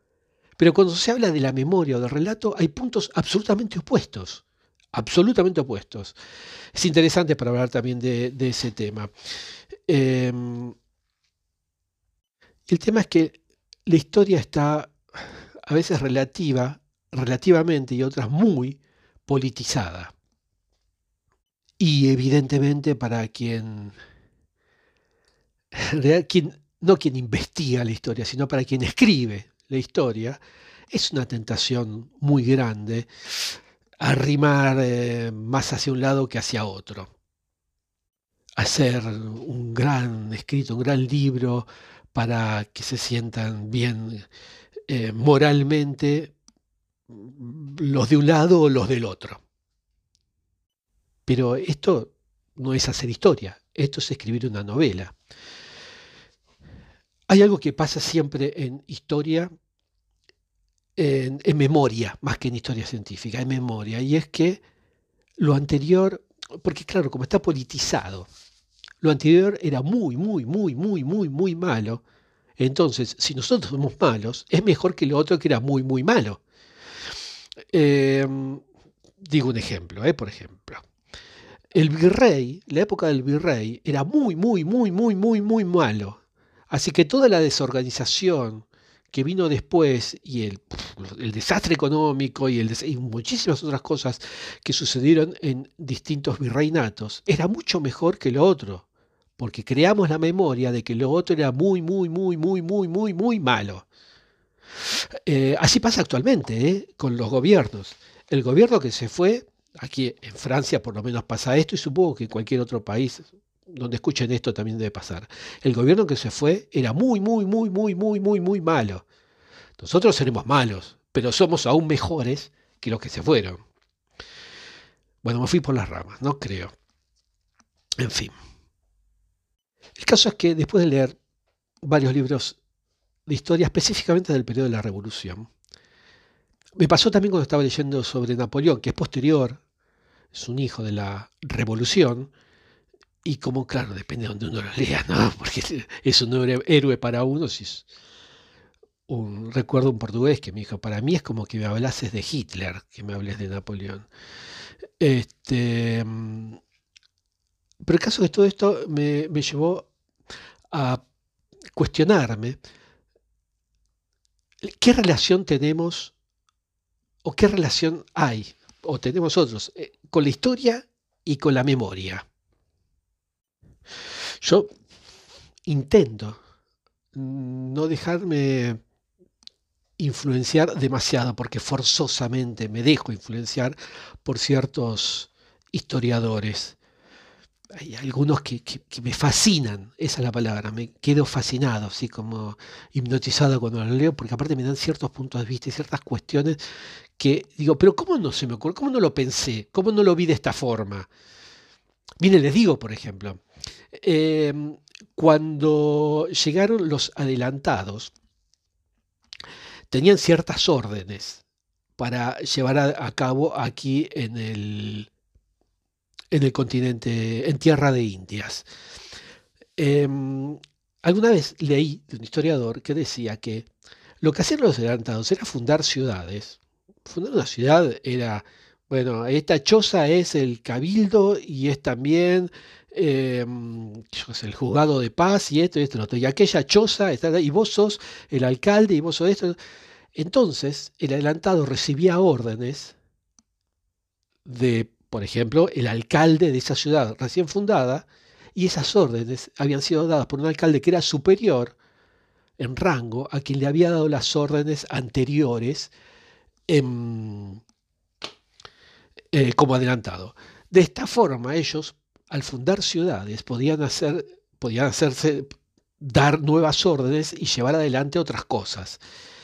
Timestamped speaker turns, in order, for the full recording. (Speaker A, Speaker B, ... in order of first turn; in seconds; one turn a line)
Speaker A: 0.6-6.2
Speaker A: 6.7-9.1
Speaker A: 9.9-10.7
Speaker A: 12.7-20.1
Speaker A: 21.8-23.9
Speaker A: 25.7-30.4
Speaker A: 30.9-37.1
Speaker A: 38.5-44.3
Speaker A: 44.9-46.3
Speaker A: 47.1-49.4
Speaker A: 51.2-55.1
Speaker A: 57.3-59.5
Speaker A: 61.0-64.6
Speaker A: 65.4-68.3
Speaker A: 69.0-72.0
Speaker A: 72.6-76.4
Speaker A: 77.7-78.6
Speaker A: 79.2-80.8
Speaker A: 81.7-98.8
Speaker A: 99.4-103.9
Speaker A: 105.1-119.0
Speaker A: 119.8-123.6
Speaker A: 125.2-126.7
Speaker A: 128.0-128.3
Speaker A: 130.0-131.2
Speaker A: 131.8-132.6
Speaker A: 133.3-135.5
Speaker A: 136.8-139.6
Speaker A: 140.3-142.3
Speaker A: 143.2-147.9
Speaker A: 149.1-154.1
Speaker A: 155.0-156.6
Speaker A: 157.8-159.9
Speaker A: 160.7-161.0
Speaker A: 161.7-162.6
Speaker A: 164.6-166.1
Speaker A: 167.2-172.2
Speaker A: 174.4-174.7
Speaker A: 175.7-176.4
Speaker A: 177.1-178.8
Speaker A: 180.0-186.8
Speaker A: 187.7-196.6
Speaker A: 197.2-201.1
Speaker A: 202.2-203.4
Speaker A: 203.9-208.1
Speaker A: 209.9-211.4
Speaker A: 212.0-215.1
Speaker A: 216.3-218.7
Speaker A: 219.8-223.7
Speaker A: 224.2-239.6
Speaker A: 240.1-242.9
Speaker A: 244.4-251.8
Speaker A: 252.6-255.9
Speaker A: 256.7-257.6
Speaker A: 259.3-269.0